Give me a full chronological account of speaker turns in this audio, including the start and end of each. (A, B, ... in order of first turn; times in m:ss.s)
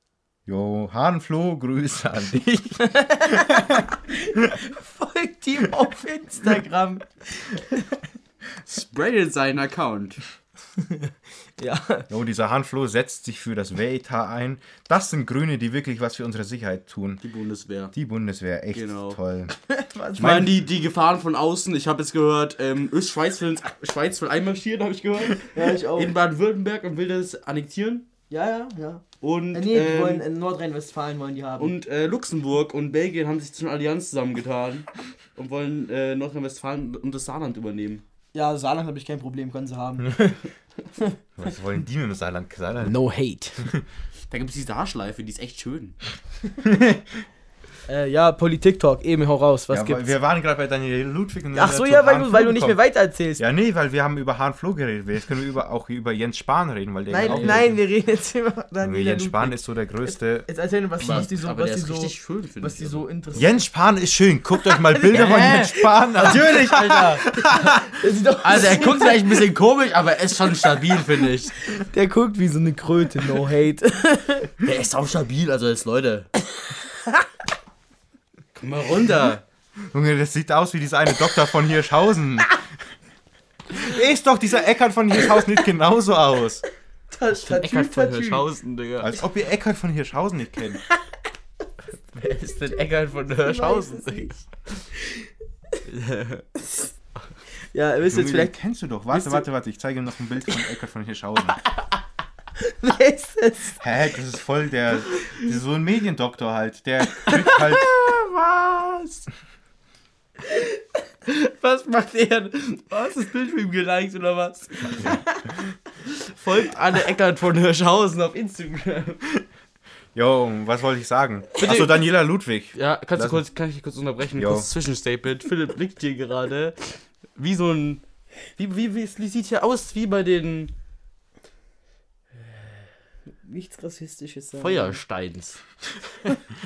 0:00.5-0:03.8 A
0:02.8-0:07.9 B
0:08.6-0:10.2 C
0:10.8-0:12.1 B
0:12.1-0:17.2 A
0:17.2-0:17.9 C
0:17.9-0:19.5 A
0:18.7-0:19.2 C
0:19.7-0:20.5 B
0:20.2-0:28.1 C
0:20.2-0:20.5 A
0:25.5-0:26.1 B
0:28.3-0:31.7 B
0:29.2-0:30.2 C
0:31.6-0:38.0 C
0:38.3-0:40.5 B
0:41.4-0:43.0 A
0:42.8-0:43.7 B
0:43.6-0:43.8 A
0:44.3-0:46.0 C
0:46.6-0:47.2 A
0:47.9-0:50.1 B
0:49.7-0:52.8 A
0:51.5-0:53.4 B
0:53.4-0:57.7 A
0:57.1-1:03.6 B
0:57.2-0:57.8 C
0:58.8-1:00.5 A
1:01.0-1:03.1 C
1:03.3-1:07.9 A
1:04.9-1:09.2 B
1:05.1-1:07.2 C
1:08.4-1:11.6 C
1:11.8-1:14.5 B
1:14.6-1:16.3 C
1:16.8-1:17.2 B
1:18.5-1:19.4 C
1:19.9-1:22.6 A
1:23.7-1:26.6 A
1:27.1-1:28.4 B
1:27.4-1:29.1 C
1:29.0-1:30.8 A
1:32.2-1:34.9 C
1:33.5-1:34.4 B
1:35.9-1:36.5 C
1:36.6-1:36.9 B
1:37.7-1:38.5 B
1:38.0-1:41.6 A
1:39.1-1:39.4 B
1:42.6-1:43.8 B
1:43.8-1:48.0 A
1:47.2-1:49.1 B
1:51.2-1:55.2 C
1:55.0-1:55.4 B
1:56.3-1:59.2 C
2:00.1-2:03.4 A
2:01.6-2:02.0 C
2:02.8-2:10.7 C
2:04.4-2:04.7 A
2:13.3-2:15.0 B
2:14.6-2:15.6 C